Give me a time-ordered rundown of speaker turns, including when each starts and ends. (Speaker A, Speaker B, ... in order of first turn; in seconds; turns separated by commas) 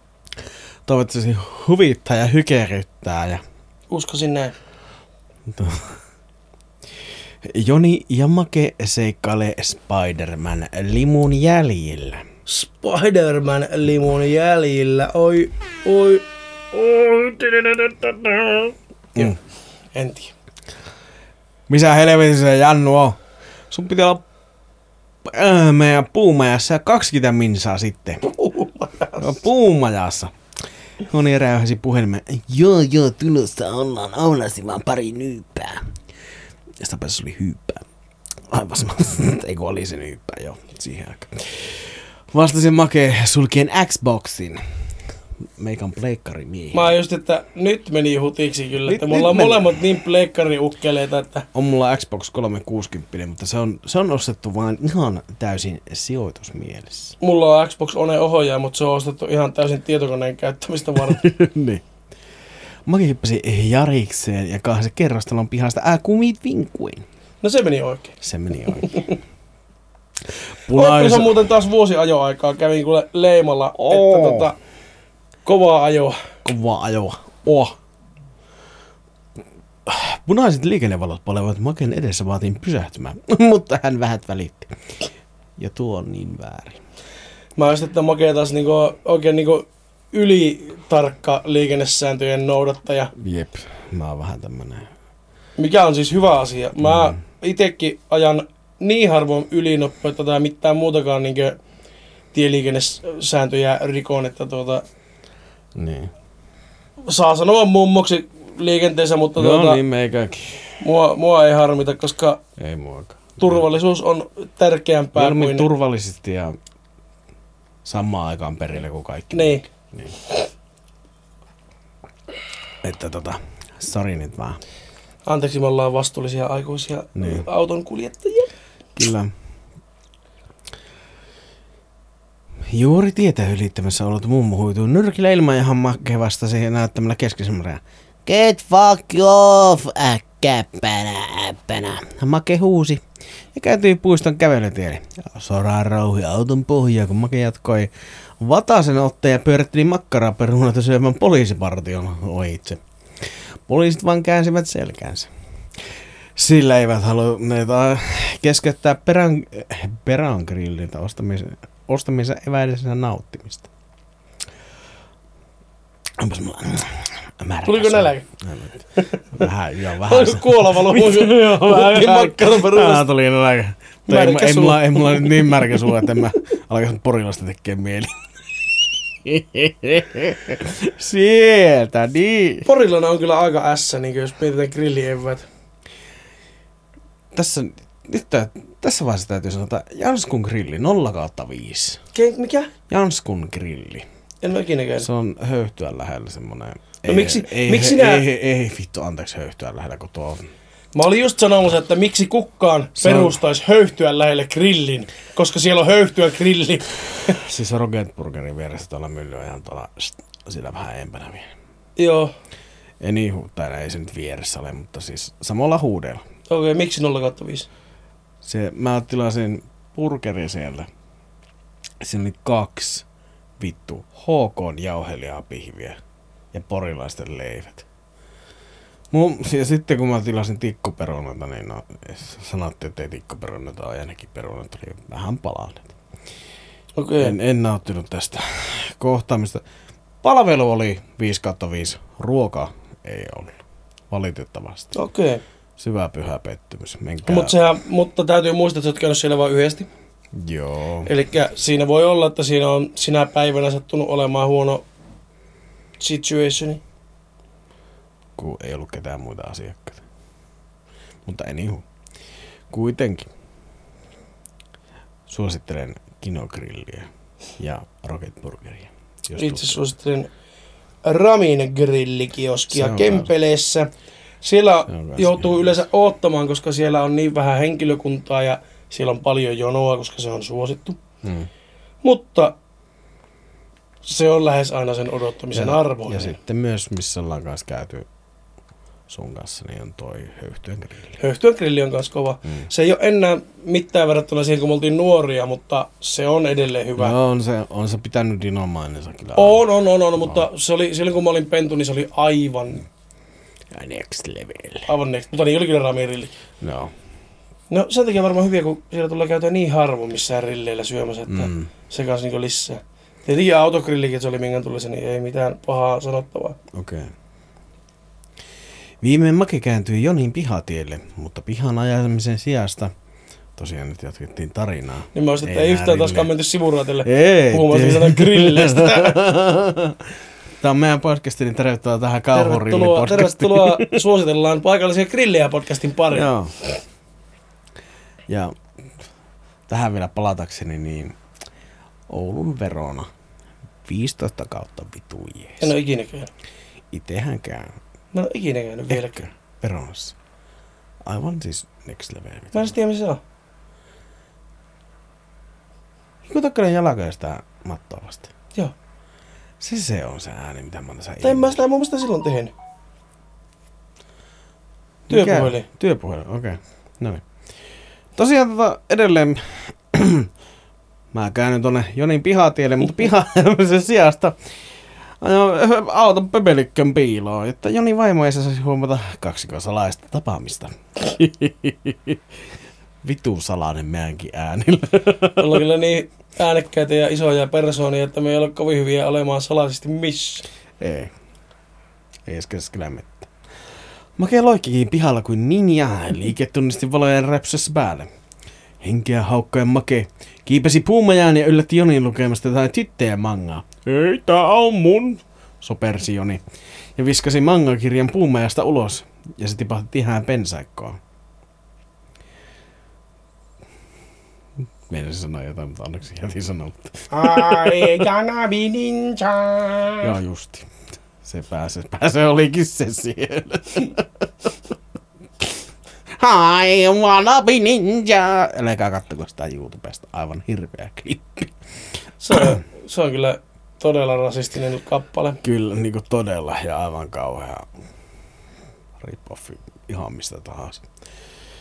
Speaker A: 0.9-3.4, Speaker B: 3.9-4.6, Speaker A: 5.5-6.0, Speaker A: 7.5-12.3, Speaker B: 12.5-19.4, Speaker B: 19.9-20.3, Speaker A: 21.7-23.2, Speaker A: 23.7-24.2, Speaker A: 25.3-28.3, Speaker B: 28.2-29.4, Speaker A: 29.2-30.3, Speaker A: 31.0-35.9, Speaker A: 36.8-37.8, Speaker A: 38.5-44.6, Speaker A: 45.6-46.9, Speaker B: 46.7-51.5, Speaker A: 48.9-49.8, Speaker A: 51.5-57.2, Speaker B: 57.2-61.2, Speaker A: 61.0-61.8, Speaker A: 62.9-67.1, Speaker B: 67.4-68.2, Speaker A: 68.2-69.2, Speaker B: 68.8-69.1, Speaker A: 70.5-71.5, Speaker B: 70.7-74.6, Speaker A: 73.8-74.5, Speaker B: 75.5-76.3, Speaker A: 76.4-77.7, Speaker A: 79.9-85.0, Speaker A: 85.6-86.8, Speaker B: 87.6-93.1, Speaker A: 93.2-94.9, Speaker B: 95.6-101.6, Speaker A: 96.8-97.2, Speaker B: 102.3-104.8, Speaker A: 105.8-106.1, Speaker B: 107.1-109.8, Speaker A: 109.4-110.8, Speaker B: 110.8-112.4, Speaker A: 112.6-113.6, Speaker B: 113.4-115.7, Speaker A: 115.2-116.6, Speaker A: 117.8-120.1, Speaker B: 119.3-119.7, Speaker A: 122.8-124.6, Speaker B: 125.2-128.5, Speaker A: 127.2-127.5, Speaker A: 129.0-129.3, Speaker A: 132.7-155.3, Speaker A: 156.4-163.7, Speaker A: 166.2-178.2, Speaker B: 167.7-168.3, Speaker B: 169.0-169.5, Speaker B: 170.0-173.1, Speaker B: 174.1-176.1, Speaker A: 179.1-182.7, Speaker B: 182.7-185.5, Speaker A: 187.3-192.0, Speaker B: 192.1-192.7, Speaker A: 192.9-194.1, Speaker B: 194.4-195.1, Speaker A: 195.0-200.5, Speaker B: 197.1-198.2, Speaker B: 200.9-207.4, Speaker A: 203.0-203.4, Speaker A: 207.3-211.5, Speaker B: 212.0-212.3, Speaker A: 213.0-216.2, Speaker B: 216.5-217.7, Speaker A: 218.4-220.9, Speaker A: 222.0-223.1, Speaker A: 223.6-226.0, Speaker A: 226.5-227.9, Speaker A: 229.1-235.9, Speaker B: 236.9-237.4, Speaker A: 237.2-239.6, Speaker A: 240.2-245.0, Speaker B: 244.9-245.4, Speaker A: 245.8-247.6, Speaker B: 247.3-249.9, Speaker A: 250.3-251.1, Speaker B: 251.1-254.8, Speaker B: 256.0-256.8, Speaker A: 258.4-260.0, Speaker A: 261.3-261.9, Speaker A: 262.7-263.3, Speaker A: 265.3-269.8, Speaker B: 269.4-270.3, Speaker B: 271.0-281.0, Speaker A: 272.7-273.3, Speaker A: 274.9-275.6, Speaker A: 281.2-281.5, Speaker B: 282.0-282.6, Speaker B: 284.0-286.4, Speaker A: 285.5-288.1, Speaker A: 289.1-291.2, Speaker B: 291.2-297.1, Speaker A: 297.0-299.6, Speaker B: 299.4-302.9, Speaker A: 300.2-300.4, Speaker A: 303.7-304.9, Speaker B: 304.9-306.4, Speaker A: 306.6-306.9, Speaker B: 307.7-316.6, Speaker A: 311.3-311.7, Speaker A: 316.7-317.1, Speaker A: 319.0-322.9, Speaker A: 323.6-326.3, Speaker B: 325.1-329.2, Speaker A: 327.0-330.1, Speaker A: 330.6-334.0, Speaker B: 332.3-336.3, Speaker A: 336.1-336.6, Speaker A: 338.3-338.6, Speaker A: 339.7-341.2, Speaker A: 342.1-343.1, Speaker A: 343.9-345.7, Speaker B: 345.6-346.3, Speaker A: 346.9-347.8, Speaker B: 348.1-349.2, Speaker A: 348.9-350.2, Speaker A: 351.0-352.7, Speaker B: 352.5-353.2, Speaker A: 356.2-358.3, Speaker A: 359.6-361.6, Speaker B: 361.2-362.5, Speaker A: 365.1-367.2, Speaker B: 365.1-365.7, Speaker A: 368.2-370.3, Speaker A: 371.1-374.4, Speaker A: 375.2-382.2, Speaker A: 383.0-385.6, Speaker B: 385.4-390.5, Speaker A: 390.8-391.1, Speaker A: 392.3-393.3, Speaker A: 394.2-398.1, Speaker A: 398.8-406.4, Speaker A: 407.0-411.0, Speaker A: 414.9-417.9, Speaker B: 417.1-420.1, Speaker A: 420.0-420.7, Speaker A: 421.2-424.2, Speaker A: 426.2-431.5, Speaker B: 432.2-435.4, Speaker A: 432.3-432.6, Speaker A: 435.4-437.7, Speaker A: 439.0-440.9